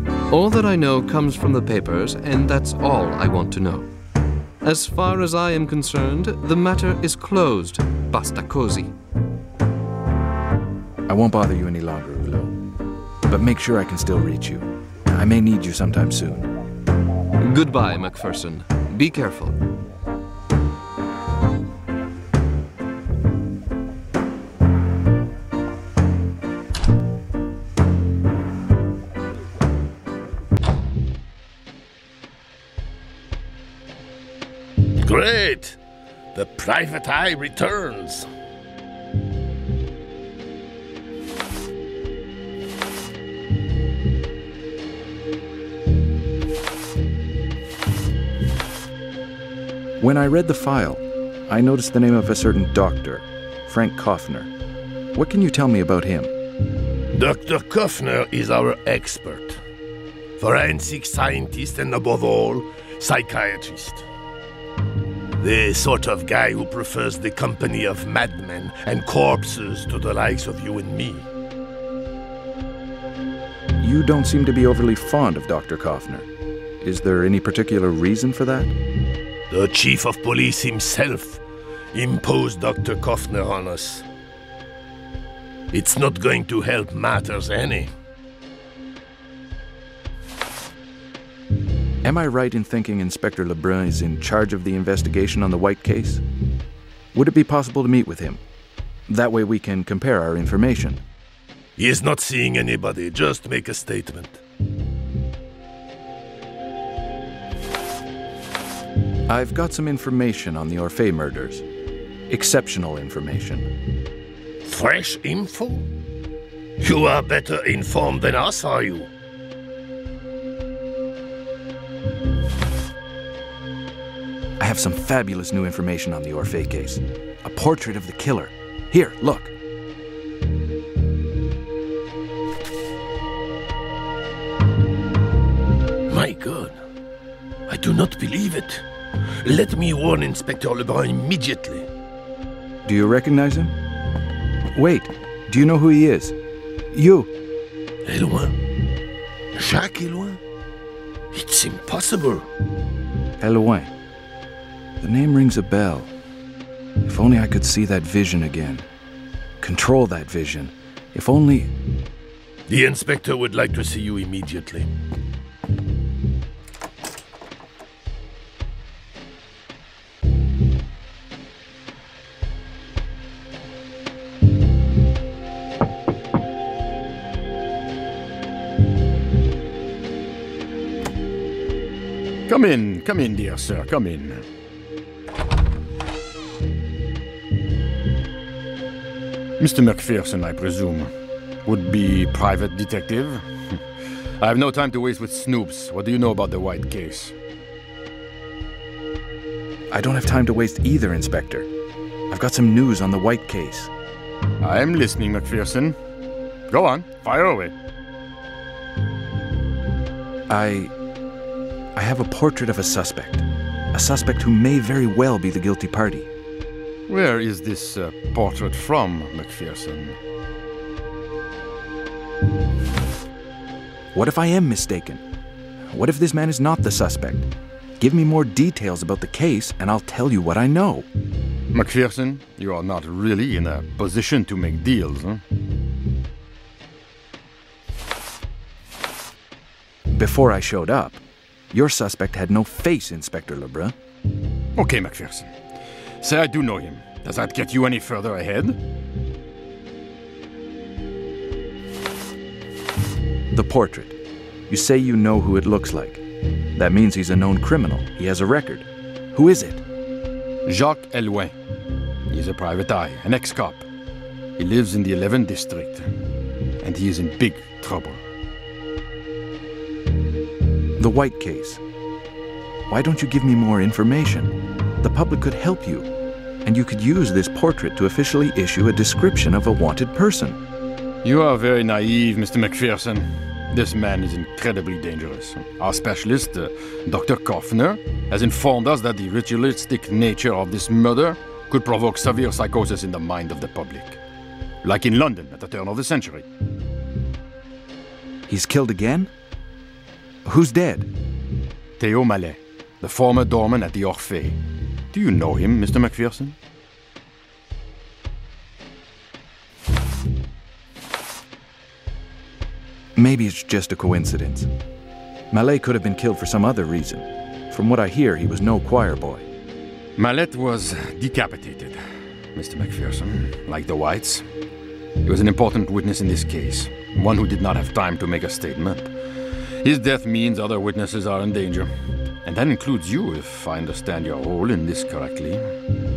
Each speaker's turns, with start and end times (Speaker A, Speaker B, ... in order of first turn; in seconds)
Speaker A: 0.3-3.9, 4.6-8.9, 17.4-19.6
Speaker B: 11.1-12.5, 13.3-16.5, 50.0-54.5, 55.1-56.3, 73.8-76.3, 76.8-78.8, 92.0-96.2, 97.1-98.4, 99.1-101.0, 109.3-111.7, 112.3-113.7, 124.6-129.5, 142.8-143.8, 144.7-146.3, 146.9-147.3, 153.4-153.9, 155.0-156.1, 157.0-158.9, 159.6-161.7, 199.9-201.7, 202.3-203.9, 210.5-210.9, 211.9-216.3, 224.1-225.2, 225.9-227.5, 228.0-231.1, 240.1-243.9, 253.5-254.2, 254.7-256.2, 256.8-259.8, 271.0-271.8, 272.9-276.1, 276.6-280.6, 298.5-299.3, 300.4-301.1, 313.1-314.7, 315.5-319.5
Speaker C: 35.0-35.8, 36.3-38.3, 57.1-59.6, 60.4-64.1, 65.4-71.3, 79.5-81.4, 81.9-84.1, 85.7-87.9, 101.8-104.4, 114.7-115.9, 116.8-119.1, 136.1-136.8, 137.7-138.8, 139.4-141.9, 148.1-148.6, 149.6-150.4, 151.3-152.5, 162.7-164.9
Speaker D: 182.5-184.4, 189.6-191.1, 191.7-193.8, 194.4-197.3, 204.6-206.0, 206.7-207.7, 217.1-220.2, 231.7-235.4, 244.8-245.6, 246.2-248.8, 260.7-261.6, 262.3-263.9, 264.6-266.1, 266.8-268.2, 281.2-294.2, 294.8-296.5, 302.0-304.6, 305.1-306.6, 320.2-322.0, 322.6-324.4, 325.2-329.1, 329.8-331.9, 332.4-335.6